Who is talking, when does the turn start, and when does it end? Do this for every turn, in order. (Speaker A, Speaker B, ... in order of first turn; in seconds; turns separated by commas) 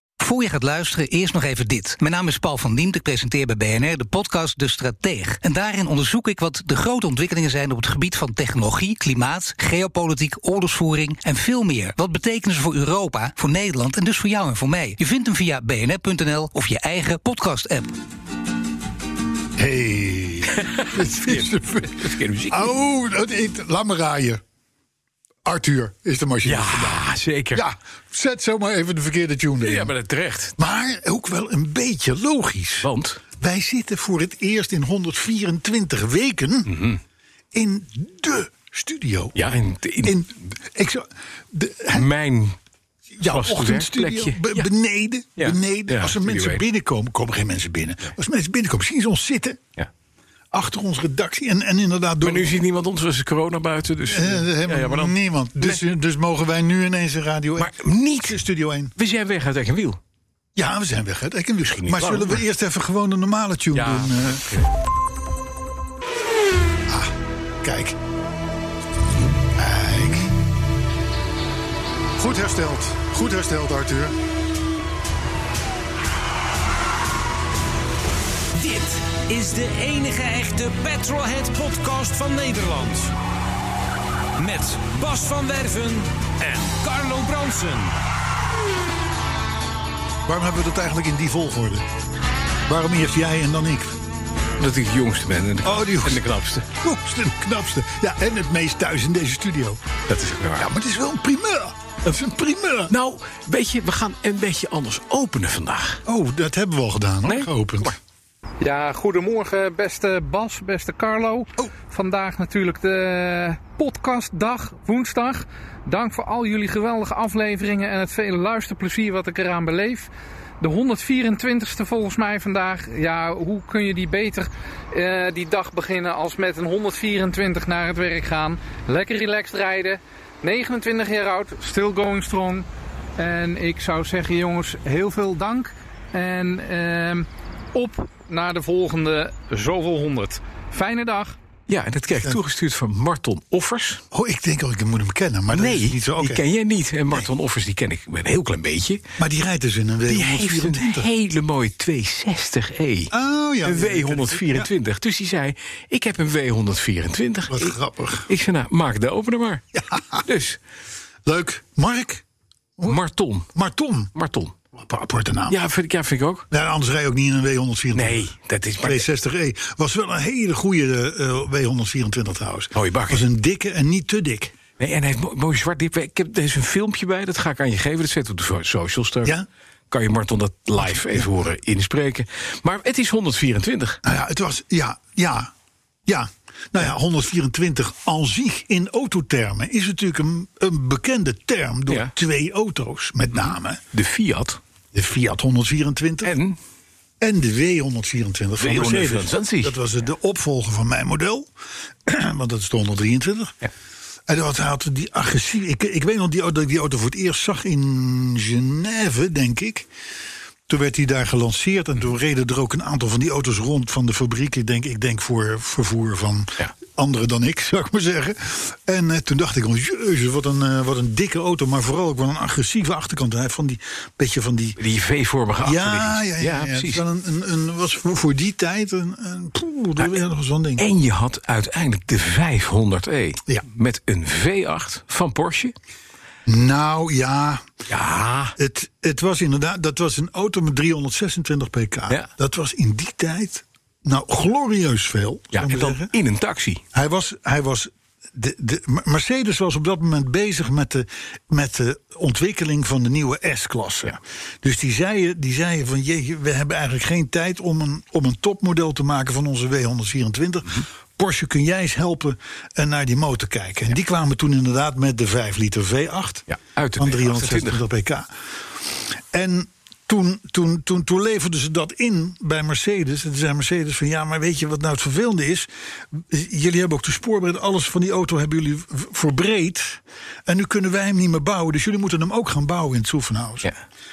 Speaker A: 0.2-17.9, Speaker B: 19.6-24.4, Speaker C: 20.5-22.7, Speaker B: 25.4-29.9, Speaker C: 26.4-27.6, Speaker C: 29.6-30.6, Speaker B: 30.6-32.9, Speaker C: 32.8-33.2, Speaker B: 33.4-36.8, Speaker C: 36.7-37.0, Speaker B: 37.5-39.3, Speaker C: 39.4-40.1, Speaker B: 40.0-42.1, Speaker C: 41.9-42.6, Speaker B: 43.2-49.6, Speaker C: 43.2-44.7, Speaker C: 45.4-46.6, Speaker B: 50.5-52.5, Speaker C: 52.2-55.8, Speaker B: 54.1-58.9, Speaker C: 57.6-58.4, Speaker C: 59.0-60.0, Speaker B: 60.5-64.5, Speaker C: 61.7-62.4, Speaker C: 63.7-64.7, Speaker B: 66.9-68.0, Speaker B: 69.5-70.3, Speaker B: 72.2-74.2, Speaker D: 78.5-83.1, Speaker D: 84.4-87.9, Speaker B: 90.2-91.8, Speaker B: 92.7-94.0, Speaker C: 94.6-96.7, Speaker B: 95.6-96.2, Speaker B: 96.8-99.8, Speaker C: 100.1-100.7, Speaker B: 100.5-102.9, Speaker C: 102.9-106.0, Speaker B: 106.0-108.0, Speaker C: 107.3-108.0, Speaker E: 108.6-120.1, Speaker E: 120.6-132.7, Speaker E: 133.2-141.3, Speaker C: 141.7-144.0, Speaker B: 144.1-146.4, Speaker C: 145.5-149.0, Speaker B: 149.2-151.1, Speaker C: 150.1-153.1, Speaker B: 153.1-154.7, Speaker C: 153.6-157.7, Speaker B: 157.5-158.3, Speaker C: 158.3-159.6, Speaker B: 159.7-160.2, Speaker C: 160.2-160.6, Speaker B: 161.2-162.2, Speaker C: 162.8-163.5, Speaker B: 163.5-164.1, Speaker C: 164.1-164.6, Speaker B: 164.7-165.6, Speaker C: 165.5-166.5, Speaker B: 166.5-168.3, Speaker C: 167.9-169.1, Speaker B: 168.8-174.6, Speaker C: 172.7-173.2, Speaker C: 174.8-179.4, Speaker C: 179.9-184.0, Speaker B: 180.8-181.3, Speaker B: 184.0-185.5, Speaker B: 186.1-193.8, Speaker C: 191.9-192.1, Speaker C: 193.9-194.6, Speaker B: 194.9-196.3, Speaker C: 196.2-196.6, Speaker B: 197.2-201.5, Speaker C: 198.6-199.8, Speaker B: 202.0-203.6, Speaker B: 204.3-209.9, Speaker B: 210.7-224.8, Speaker C: 224.8-227.0, Speaker B: 225.6-230.8, Speaker C: 230.8-235.7, Speaker B: 236.4-237.7, Speaker C: 237.9-238.5, Speaker B: 238.6-246.1, Speaker C: 245.5-246.8, Speaker B: 246.9-266.4, Speaker C: 266.5-267.8, Speaker B: 267.0-268.3, Speaker B: 268.9-283.7